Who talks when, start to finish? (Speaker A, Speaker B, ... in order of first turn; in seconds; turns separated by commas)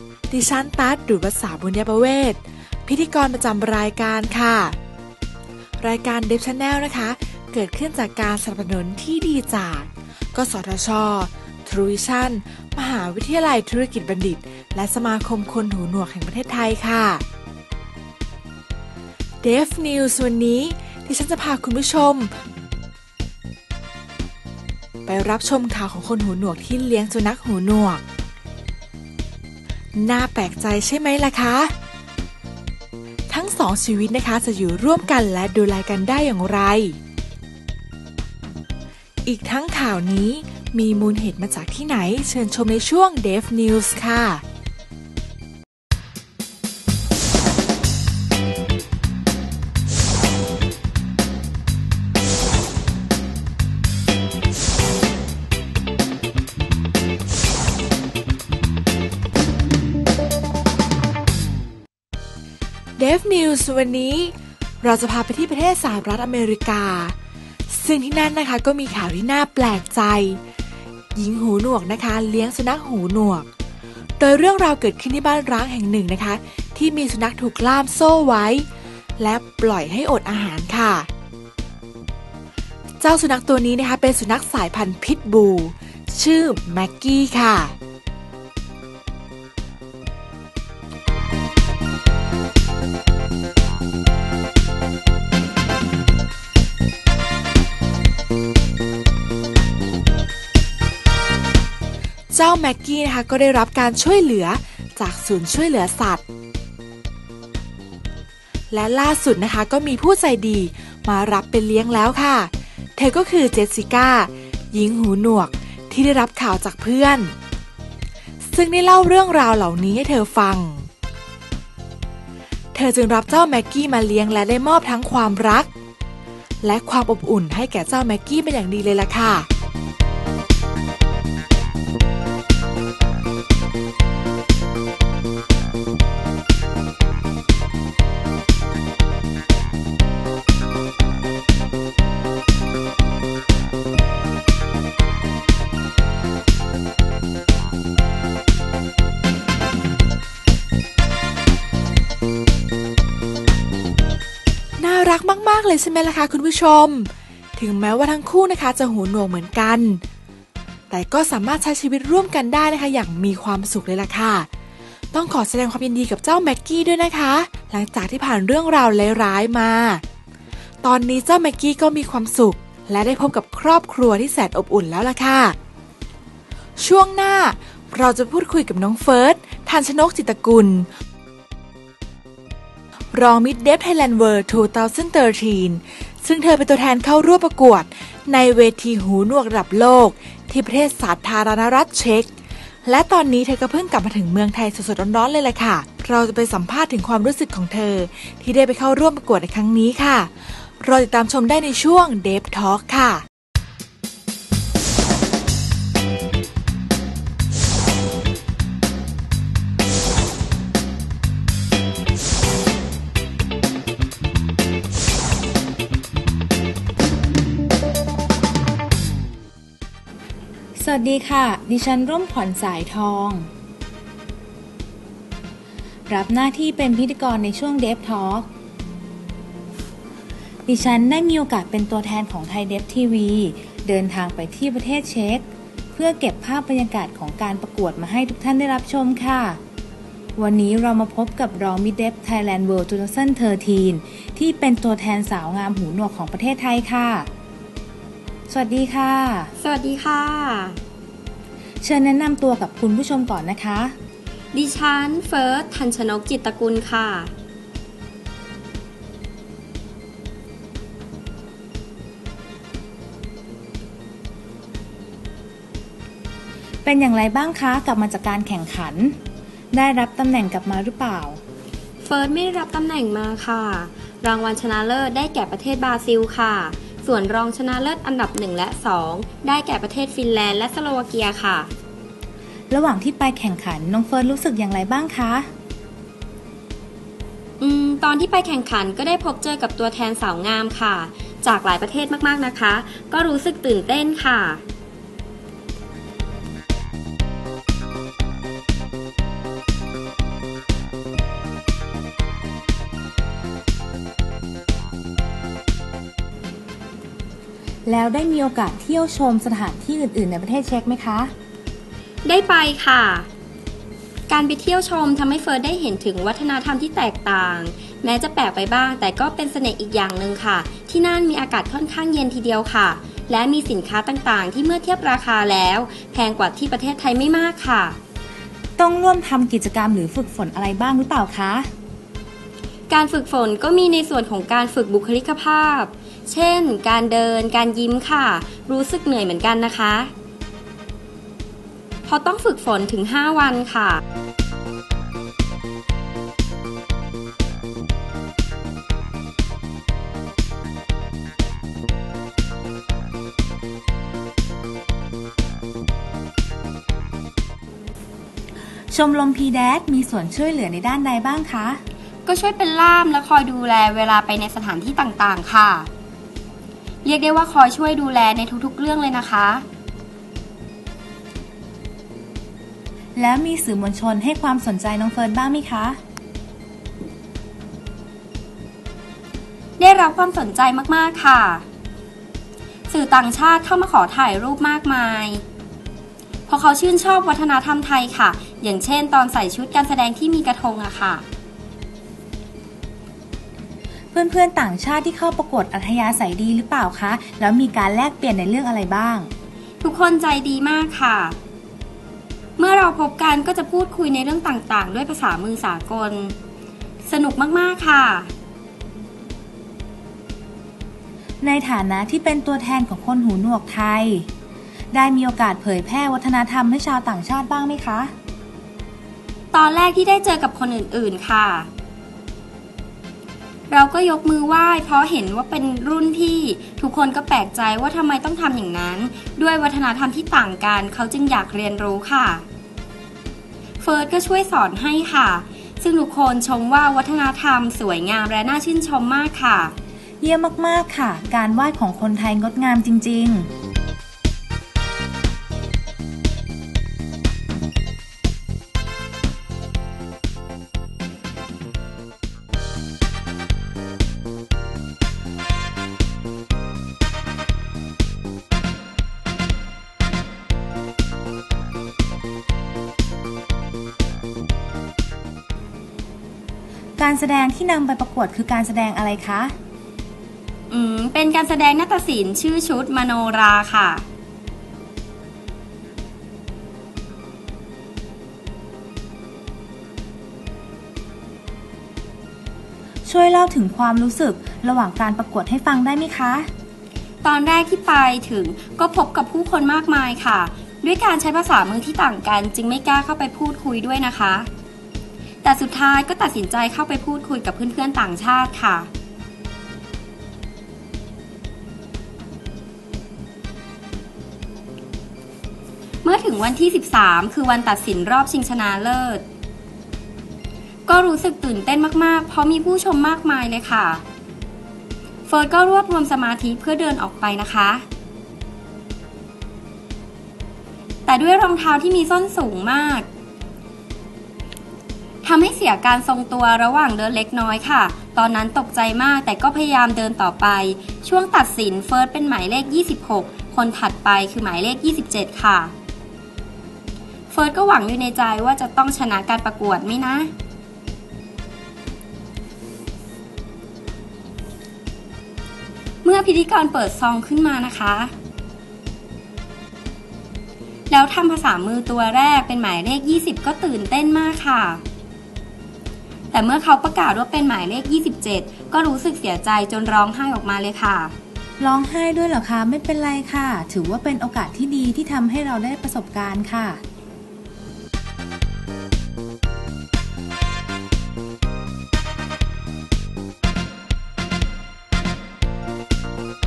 Speaker A: 0.3-4.8, Speaker A: 5.8-17.2, Speaker A: 19.4-22.3, Speaker A: 25.1-28.0, Speaker A: 30.0-31.7, Speaker A: 33.3-37.0, Speaker A: 39.2-44.4, Speaker A: 63.0-67.2, Speaker A: 67.7-70.4, Speaker A: 71.2-73.5, Speaker A: 74.2-78.7, Speaker A: 79.2-81.1, Speaker A: 83.0-87.8, Speaker A: 102.3-106.2, Speaker A: 108.7-117.3, Speaker A: 118.4-120.9, Speaker A: 122.7-125.7, Speaker A: 126.6-129.5, Speaker A: 154.8-160.0, Speaker A: 160.9-164.5, Speaker A: 165.1-170.0, Speaker A: 170.8-175.6, Speaker A: 176.8-180.9, Speaker A: 183.1-192.3, Speaker A: 192.8-203.2, Speaker B: 220.8-223.5, Speaker B: 226.1-228.5, Speaker B: 230.7-239.6, Speaker B: 240.4-247.3, Speaker B: 248.5-249.5, Speaker C: 249.6-250.8, Speaker B: 251.8-253.9, Speaker C: 254.5-257.3, Speaker B: 266.9-269.2, Speaker B: 269.7-271.4, Speaker C: 272.0-281.7, Speaker B: 282.7-285.5, Speaker C: 287.6-294.6, Speaker B: 307.9-311.3, Speaker C: 312.2-313.3, Speaker C: 314.3-328.0, Speaker B: 328.8-331.7, Speaker C: 332.9-340.1, Speaker C: 342.1-344.0, Speaker B: 358.9-361.8, Speaker C: 362.3-365.9, Speaker C: 367.0-369.6, Speaker B: 373.2-376.0, Speaker C: 379.8-381.6, Speaker C: 382.9-385.4, Speaker C: 386.5-391.2, Speaker B: 394.1-399.3, Speaker C: 399.8-401.4, Speaker C: 402.6-406.4, Speaker C: 407.1-408.3, Speaker B: 411.4-414.3, Speaker B: 414.9-418.1, Speaker C: 419.5-421.7, Speaker C: 423.7-432.4, Speaker C: 433.8-439.8, Speaker B: 440.2-443.5, Speaker B: 467.0-469.5, Speaker C: 470.7-474.0, Speaker B: 483.1-486.5, Speaker C: 487.2-494.5, Speaker C: 495.4-498.9, Speaker C: 506.0-509.2, Speaker C: 510.9-514.0, Speaker C: 515.3-517.9, Speaker C: 521.1-523.1, Speaker C: 525.2-535.7, Speaker C: 537.3-540.3, Speaker C: 546.0-548.1, Speaker C: 550.9-554.8, Speaker C: 556.3-561.1, Speaker B: 561.6-566.8